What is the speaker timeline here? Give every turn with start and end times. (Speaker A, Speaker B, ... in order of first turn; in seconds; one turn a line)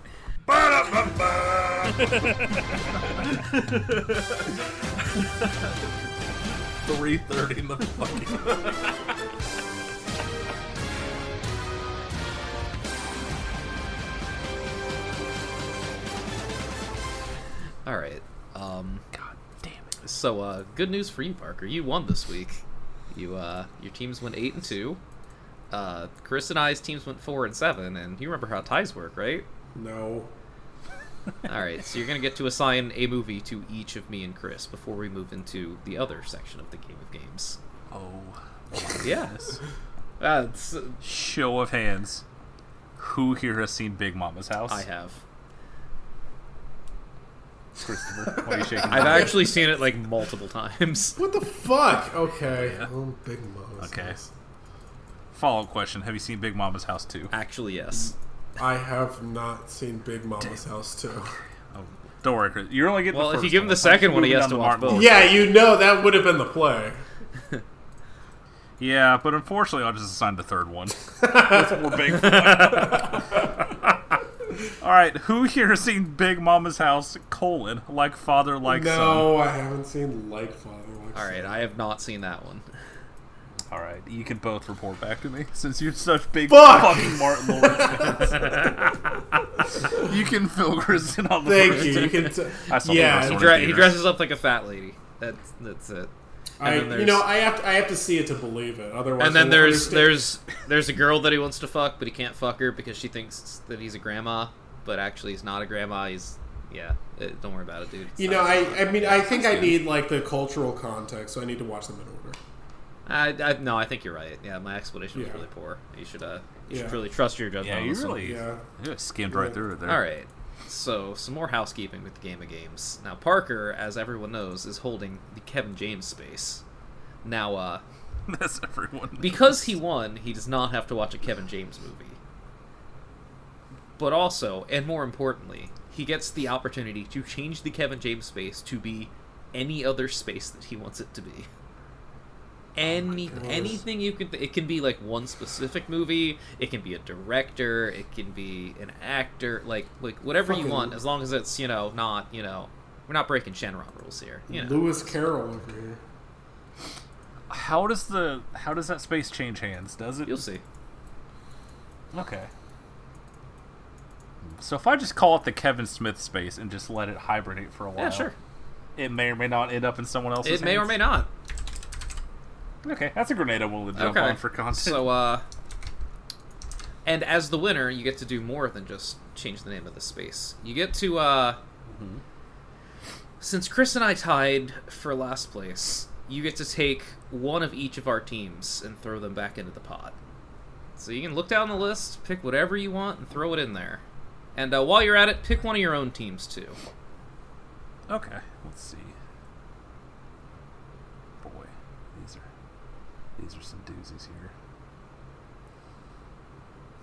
Speaker A: 0.5-2.4
Speaker A: 3.4-4.3
Speaker A: 6.8-8.9
Speaker B: 17.8-19.0
Speaker A: 19.1-19.9
Speaker B: 20.0-25.0
Speaker B: 25.7-29.5
Speaker C: 29.7-30.3
Speaker B: 31.4-37.6
Speaker A: 37.9-39.6
Speaker B: 39.0-39.3
Speaker B: 40.2-41.0
Speaker A: 41.0-42.2
Speaker A: 43.0-44.8
Speaker B: 44.7-45.2
Speaker A: 47.8-49.5
Speaker C: 48.9-49.4
Speaker B: 48.9-51.2
Speaker C: 51.2-54.3
Speaker A: 52.5-52.9
Speaker A: 53.8-54.2
Speaker A: 55.3-57.3
Speaker B: 57.3-58.1
Speaker C: 58.6-61.3
Speaker A: 61.7-65.5
Speaker B: 63.1-65.2
Speaker C: 64.9-67.0
Speaker A: 68.8-73.5
Speaker C: 71.2-71.6
Speaker A: 74.8-79.3
Speaker C: 78.7-81.5
Speaker B: 81.1-82.6
Speaker A: 83.7-88.8
Speaker C: 86.5-88.2
Speaker A: 89.7-94.0
Speaker C: 91.4-93.5
Speaker B: 93.0-96.1
Speaker C: 96.6-100.2
Speaker B: 96.6-97.3
Speaker B: 99.2-109.7
Speaker C: 108.2-112.4
Speaker B: 113.0-118.3
Speaker C: 115.1-115.4
Speaker C: 116.7-117.0
Speaker A: 117.6-120.0
Speaker C: 118.2-118.6
Speaker C: 119.3-119.6
Speaker B: 119.8-126.6
Speaker B: 127.2-127.8
Speaker A: 128.3-129.7
Speaker B: 129.2-132.2
Speaker B: 134.0-141.5
Speaker B: 142.7-155.1
Speaker C: 143.2-143.8
Speaker C: 150.4-151.0
Speaker C: 154.5-156.0
Speaker A: 157.5-160.4
Speaker B: 160.2-160.6
Speaker A: 162.1-162.5
Speaker A: 164.6-168.3
Speaker B: 168.0-168.3
Speaker A: 168.9-171.0
Speaker B: 170.4-171.3
Speaker A: 172.8-175.0
Speaker B: 173.9-175.4
Speaker B: 177.1-181.6
Speaker A: 181.9-182.2
Speaker B: 183.4-190.2
Speaker B: 190.9-194.0
Speaker B: 194.5-196.8
Speaker A: 198.1-199.1
Speaker A: 201.4-202.4
Speaker A: 203.4-204.5